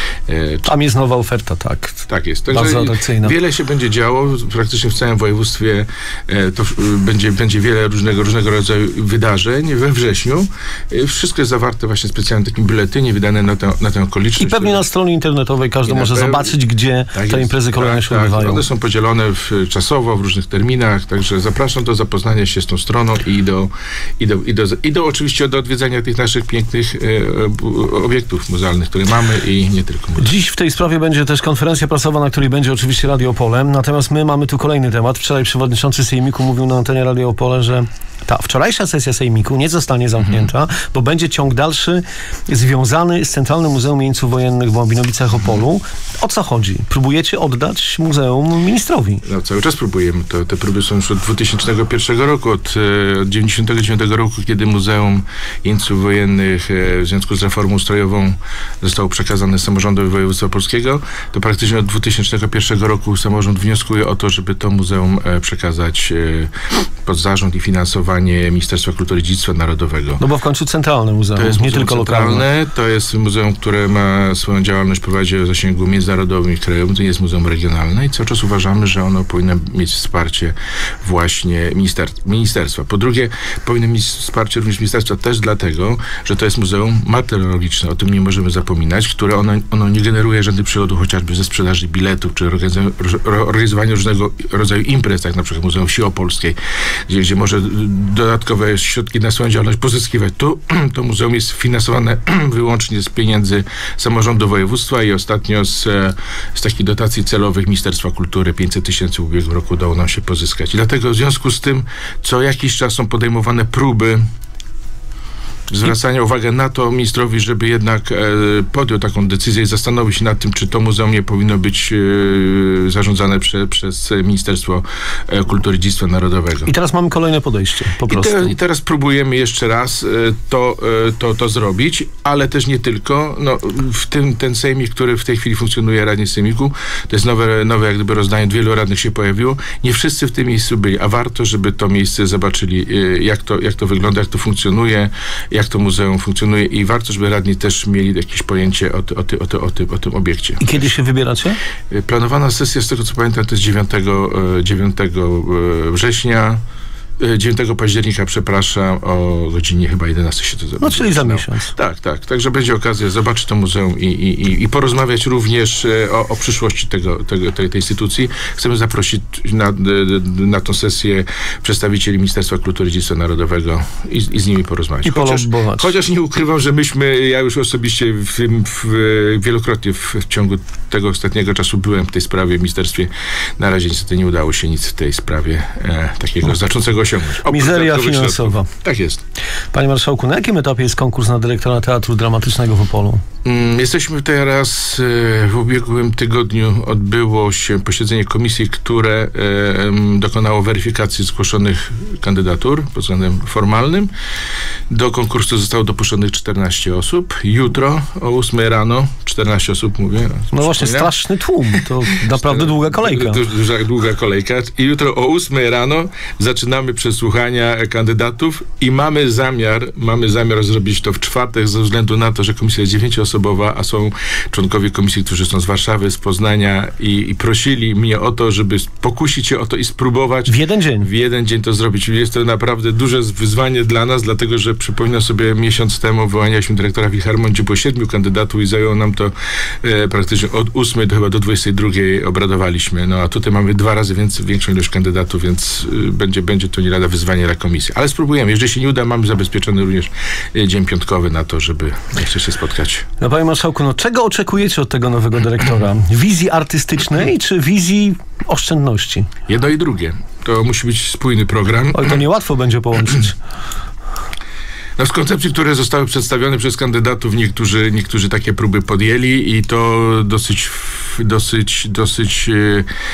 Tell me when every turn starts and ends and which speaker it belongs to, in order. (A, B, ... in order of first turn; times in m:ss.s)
0:00.3-0:00.7 A
0:00.6-0:03.3 B
0:02.1-0:14.8 A
0:14.4-0:18.6 B
0:15.9-0:16.5 A
0:17.1-0:30.3 A
0:30.2-0:49.2 B
0:49.2-1:06.5 A
1:07.0-1:10.2 A
1:10.2-1:12.4 B
1:11.4-1:36.6 A
1:37.1-1:54.2 A
1:55.7-2:06.7 A
2:06.6-2:08.5 B
2:08.1-2:30.8 A
2:30.6-2:31.6 B
2:31.9-2:36.6 A
2:37.2-3:09.2 A
2:40.8-2:41.7 B
2:55.0-2:55.9 B
3:07.4-3:08.7 B
3:09.7-3:13.2 B
3:13.4-3:24.1 A
3:24.9-3:31.1 A
3:30.5-3:33.4 B
3:32.2-4:13.0 A
3:50.5-3:51.1 B
4:13.2-4:19.3 B
4:19.5-4:22.2 A
4:21.9-4:23.3 B
4:25.0-4:32.9 A